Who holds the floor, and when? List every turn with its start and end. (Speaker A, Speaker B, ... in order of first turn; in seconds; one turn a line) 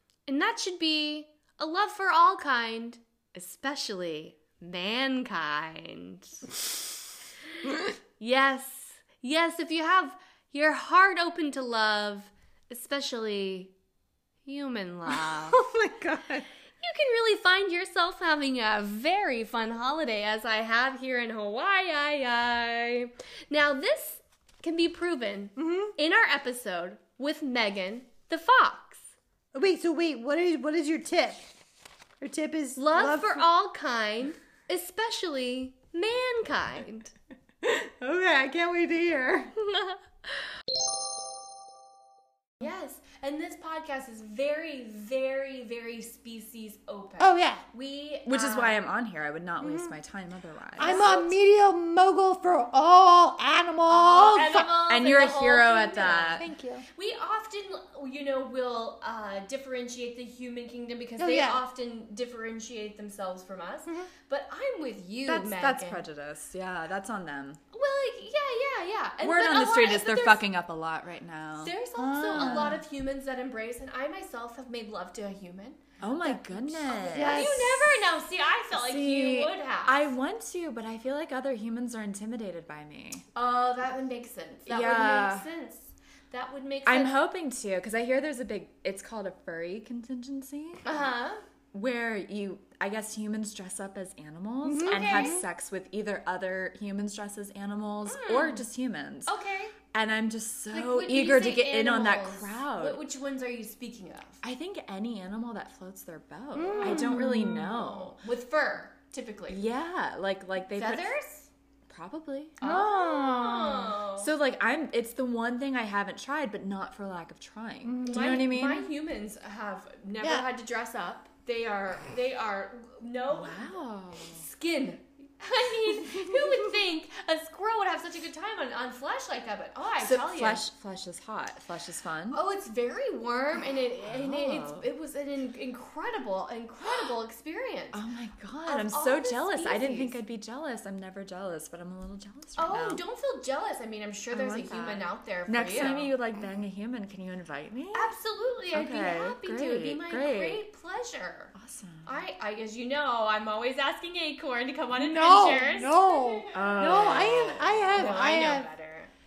Speaker A: 0.3-6.4
Speaker A: 8.2-13.7
Speaker A: 14.4-15.6
Speaker B: 15.1-16.5
Speaker A: 16.8-29.1
Speaker B: 25.6-25.9
Speaker B: 29.5-31.4
Speaker B: 32.2-33.5
Speaker A: 32.8-37.1
Speaker B: 37.6-39.5
Speaker A: 39.7-40.0
Speaker A: 42.6-48.8
Speaker B: 47.2-47.6
Speaker C: 48.3-51.1
Speaker B: 49.6-49.9
Speaker B: 50.8-54.7
Speaker A: 50.8-51.3
Speaker A: 53.9-56.4
Speaker C: 54.7-56.5
Speaker B: 56.4-56.8
Speaker A: 56.9-66.0
Speaker B: 61.2-61.6
Speaker C: 65.2-67.6
Speaker A: 67.7-70.4
Speaker C: 69.2-71.7
Speaker A: 71.6-80.0
Speaker B: 72.0-72.8
Speaker C: 72.3-72.8
Speaker C: 76.0-77.7
Speaker B: 76.9-78.0
Speaker C: 78.7-83.2
Speaker A: 83.3-87.2
Speaker C: 84.7-85.5
Speaker C: 86.9-90.9
Speaker A: 90.8-91.4
Speaker C: 91.7-99.3
Speaker B: 94.7-95.4
Speaker A: 94.8-95.4
Speaker A: 98.0-98.7
Speaker A: 99.3-99.7
Speaker C: 99.9-103.0
Speaker A: 100.7-104.4
Speaker C: 104.4-108.2
Speaker B: 106.5-107.7
Speaker A: 106.7-109.6
Speaker C: 109.5-111.1
Speaker A: 110.8-111.5
Speaker C: 111.9-112.6
Speaker A: 112.6-114.3
Speaker B: 112.6-114.0
Speaker C: 114.2-118.9
Speaker B: 117.8-118.4
Speaker A: 118.0-130.6
Speaker B: 120.2-120.5
Speaker C: 123.3-124.4
Speaker C: 130.0-132.4
Speaker A: 132.3-138.0
Speaker C: 133.6-134.9
Speaker C: 136.9-137.1
Speaker C: 137.9-143.0
Speaker A: 138.7-140.2
Speaker A: 142.6-146.1
Speaker C: 144.3-148.1
Speaker A: 147.9-151.5
Speaker C: 148.7-150.6
Speaker C: 151.6-152.2
Speaker A: 152.1-156.6
Speaker B: 155.0-158.7
Speaker C: 156.5-158.1
Speaker A: 158.0-159.1